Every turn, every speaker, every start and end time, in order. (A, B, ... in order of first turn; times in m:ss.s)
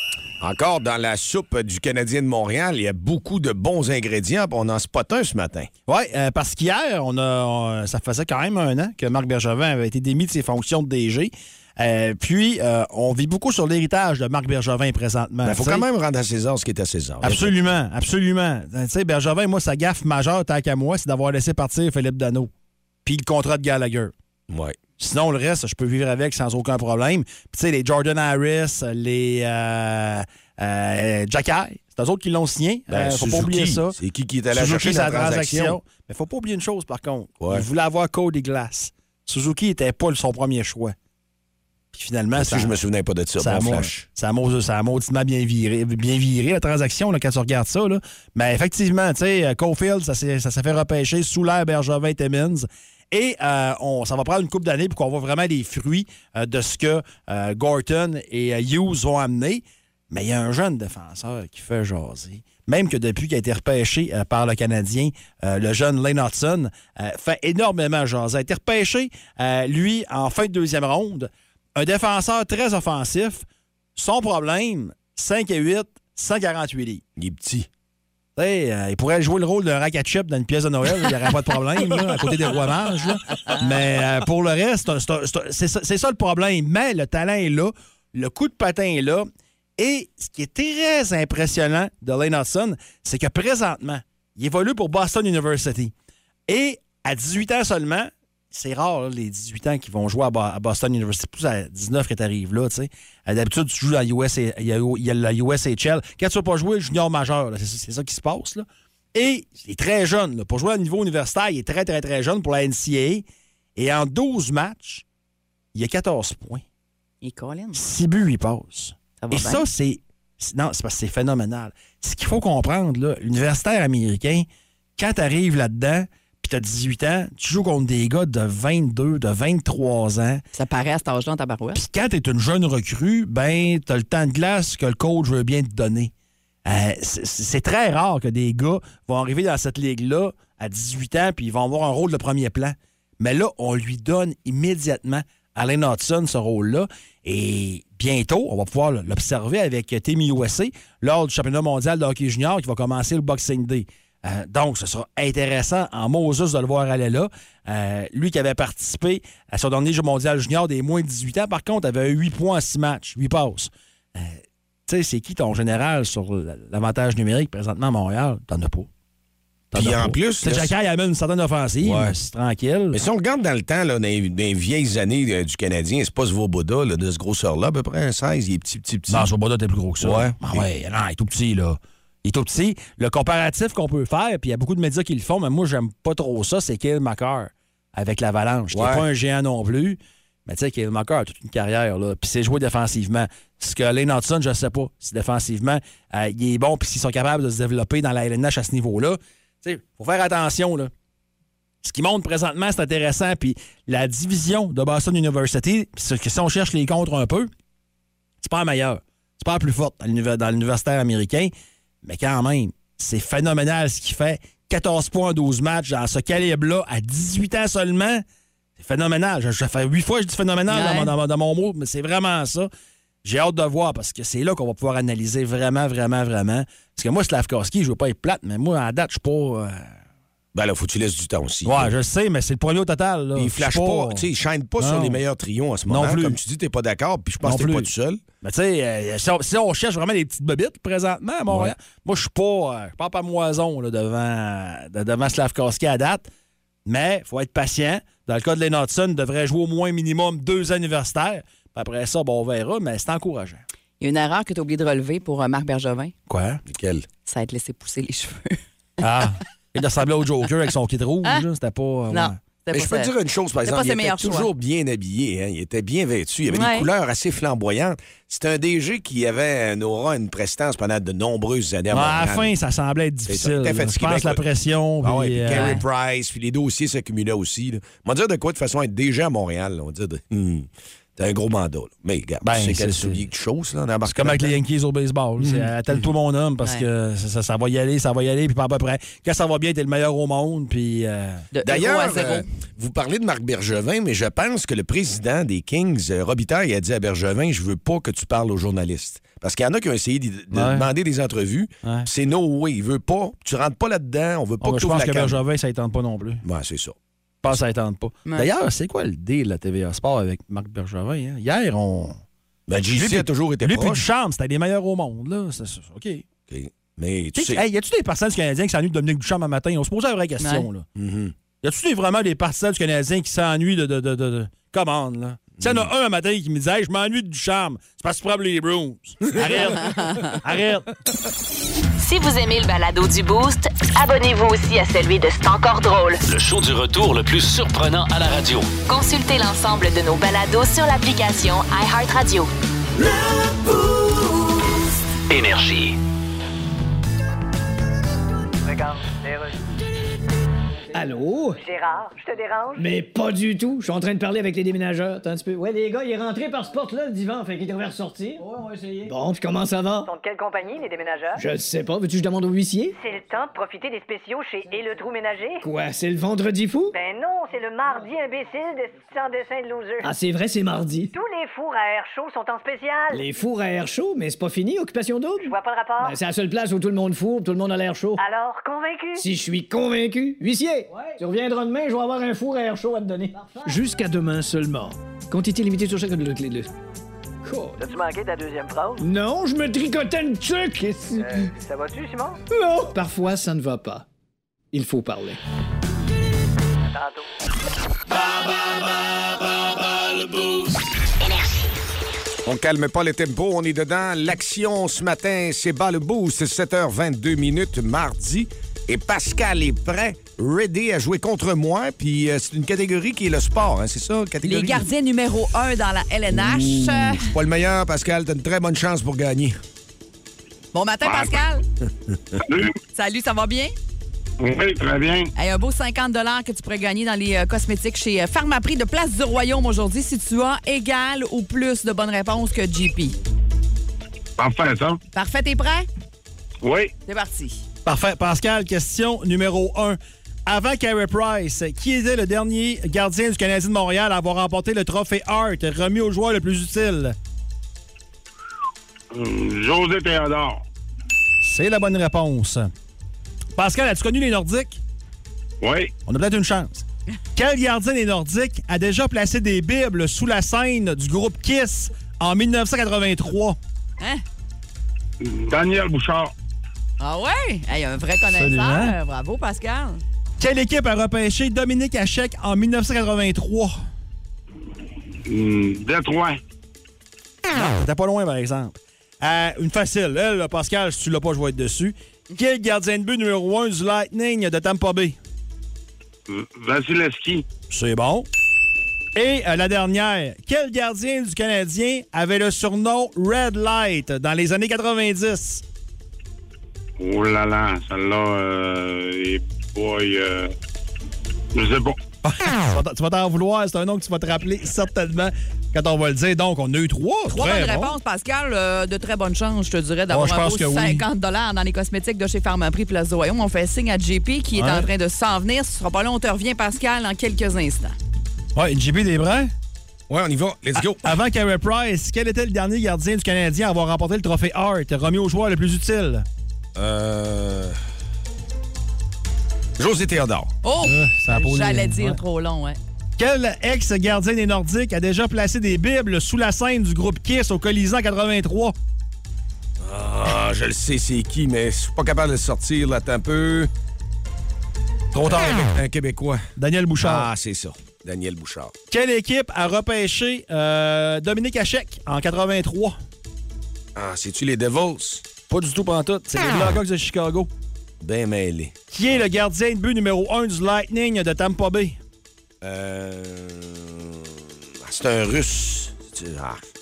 0:00.4-0:05.7 A
0:05.9-0:15.8 B
0:15.4-0:17.5 A
0:17.2-0:22.5 B
0:23.0-0:24.1 B
0:24.5-0:24.8 A
0:25.0-0:34.0 B
0:32.9-0:35.8 A
0:34.5-0:40.9 B
0:37.4-0:37.6 A
0:41.9-0:42.8 B
0:42.4-0:44.0 A
0:43.4-1:17.0 B
1:17.2-1:17.7 A
1:18.4-1:29.3 B
1:29.8-1:35.9 B
1:36.5-1:53.2 B
1:53.8-1:55.0 B
1:55.7-1:56.6 B
1:57.2-1:57.8 C
1:57.7-2:10.4 B
1:59.2-1:59.7 C
2:10.5-2:11.8 C
2:11.7-2:16.1 B
2:16.6-2:48.9 B
2:49.7-2:53.0 B
2:49.7-2:50.7 A
2:51.8-2:52.1 A
2:52.9-2:59.3 A
2:59.1-3:20.9 B
3:00.0-3:00.6 A
3:08.7-3:09.0 A
3:21.8-3:27.5 B
3:28.4-3:31.5 B
3:32.0-3:38.2 B
3:38.8-3:42.7 B
3:40.7-3:41.1 C
3:43.2-3:49.9 B
3:50.5-3:51.9 A
3:51.6-3:54.3 B
3:53.4-3:58.2 A
3:54.8-3:55.2 B
3:55.9-3:56.4 B
3:57.4-3:57.9 B
3:58.4-4:06.3 B
4:01.5-4:01.7 A
4:06.8-4:13.6 B
4:14.0-4:16.1 C
4:16.3-4:16.6 B
4:16.7-4:17.0 A
4:17.2-4:18.6 C
4:19.0-4:22.4 B
4:22.1-4:24.5 C
4:22.7-4:32.5 A
4:26.5-4:26.9 C
4:31.9-4:35.8 B
4:33.3-4:34.4 A
4:35.0-4:44.5 A
4:35.5-4:35.8 C
4:42.4-4:43.2 B
4:44.0-4:51.4 B
4:45.4-4:45.7 A
4:51.5-4:52.5 C
4:51.6-5:05.4 A
5:00.5-5:00.9 B
5:04.6-5:06.4 B
5:06.4-5:07.0 A
5:07.4-5:12.2 B
5:12.7-5:14.0 A
5:12.9-5:16.2 B
5:16.5-5:17.6 A
5:17.3-5:20.9 B
5:20.4-5:20.6 C
5:21.0-5:21.3 A
5:21.6-5:30.9 B
5:25.6-5:25.9 A
5:29.8-5:30.4 C
5:32.0-5:36.2 D
5:36.3-5:38.7 E
5:38.9-5:42.5 D
5:45.3-5:46.0 E
5:50.9-5:51.6 F
5:51.5-5:52.9 G
5:52.8-6:00.1 F
6:00.0-6:01.4 G
6:01.4-6:03.0 F
6:02.9-6:05.7 G
6:05.6-6:06.9 F
6:06.9-6:10.1 G
6:10.0-6:11.1 F
6:11.1-6:13.3 G
6:13.1-6:18.2 F
6:15.4-6:16.2 G
6:18.2-6:19.3 G
6:19.2-6:26.7 F
6:27.4-6:27.8 F
6:29.0-6:31.5 F
6:32.0-6:32.4 G
6:32.5-6:34.0 F
6:34.7-6:35.4 F
6:41.2-6:41.7 D
6:42.4-6:54.8 A
6:54.4-6:57.3 C
6:56.3-6:59.6 A
7:00.7-7:01.6 C
7:02.4-7:02.7 H
7:02.9-7:03.7 C
7:04.4-7:05.3 H
7:05.4-7:13.2 C
7:14.4-7:15.0 H
7:15.1-7:15.9 C
7:16.6-7:16.9 H
7:17.0-7:17.6 C
7:17.8-7:27.2 B
7:29.1-7:30.6 H
7:31.4-7:32.7 B
7:33.6-7:34.8 B
7:35.6-7:35.9 H
7:36.0-7:36.8 B
7:37.4-7:43.6 B
7:45.2-7:46.3 H
7:47.0-7:50.0 C
7:48.3-7:49.0 B
7:50.4-7:53.7 B
7:55.3-7:56.4 H
7:57.5-8:05.2 B
8:06.3-8:07.4 H
8:07.7-8:08.3 B
8:09.1-8:15.6 B
8:17.0-8:20.5 H
8:21.5-8:22.0 H
8:22.2-8:28.0 B
8:27.3-8:37.9 C
8:30.1-8:31.0 B
8:34.5-8:34.9 B
8:38.5-8:39.5 B
8:40.1-8:41.1 A
8:40.7-8:46.2 B
8:46.8-8:47.8 A
8:49.8-8:50.5 A
8:50.6-8:52.8 C
8:50.8-8:52.2 B
8:53.2-8:58.7 B
8:59.8-9:03.7 A
9:05.1-9:05.7 B
9:05.2-9:06.4 A
9:06.6-9:07.3 B
9:07.0-9:08.7 A
9:08.9-9:13.0 B
9:13.9-9:15.2 A
9:15.5-9:17.5 B
9:18.0-9:18.8 A
9:18.9-9:22.0 B
9:22.6-9:24.2 A
9:24.8-9:26.6 A